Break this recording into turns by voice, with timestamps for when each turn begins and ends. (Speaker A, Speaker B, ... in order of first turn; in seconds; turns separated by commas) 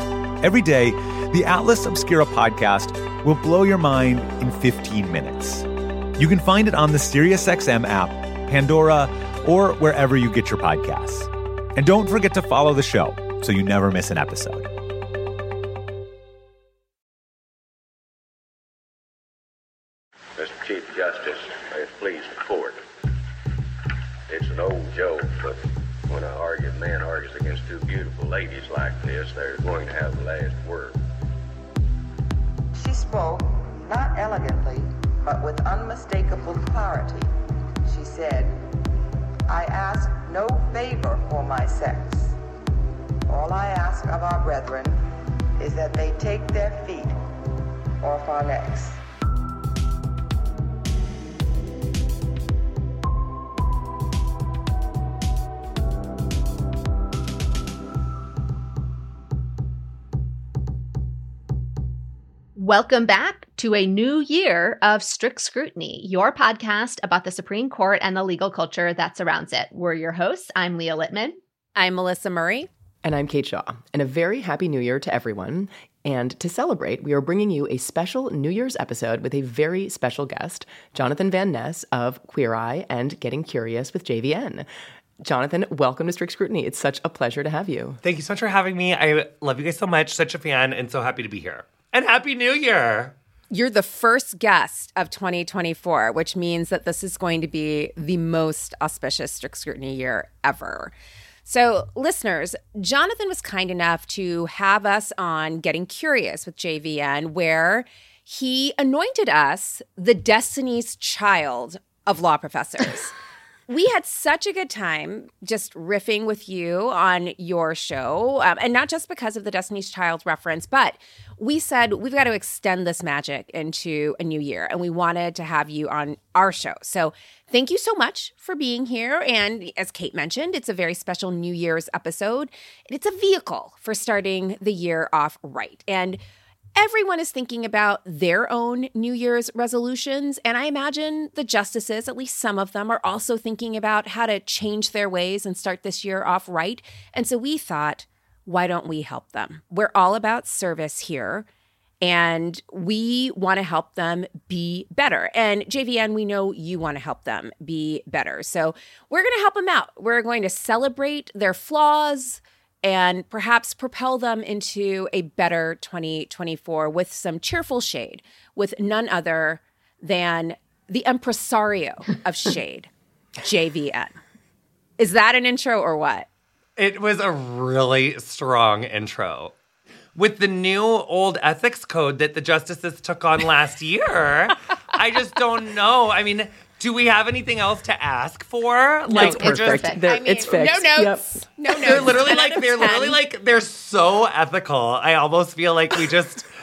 Speaker A: 0.4-5.7, Speaker A: 6.2-14.7, Speaker B: 20.4-22.8, Speaker B: 24.3-31.0, Speaker C: 32.7-37.3, Speaker C: 37.8-38.6, Speaker C: 39.5-42.4, Speaker C: 43.3-45.0, Speaker C: 45.6-47.2, Speaker C: 48.0-49.0, Speaker D: 62.5-71.4, Speaker E: 71.8-72.7, Speaker F: 73.0-84.7, Speaker F: 85.2-88.0, Speaker G: 88.0-93.1, Speaker E: 93.5-100.9, Speaker E: 101.5-113.1, Speaker E: 113.7-136.2, Speaker E: 136.8-151.4, Speaker E: 152.0-172.9, Speaker E: 173.4-174.1, Speaker E: 175.0-176.3, Speaker G: 176.8-179.5, Speaker G: 180.1-189.9, Speaker D: 189.1-190.0, Speaker F: 189.1-191.3, Speaker E: 190.0-193.2, Speaker G: 191.7-196.5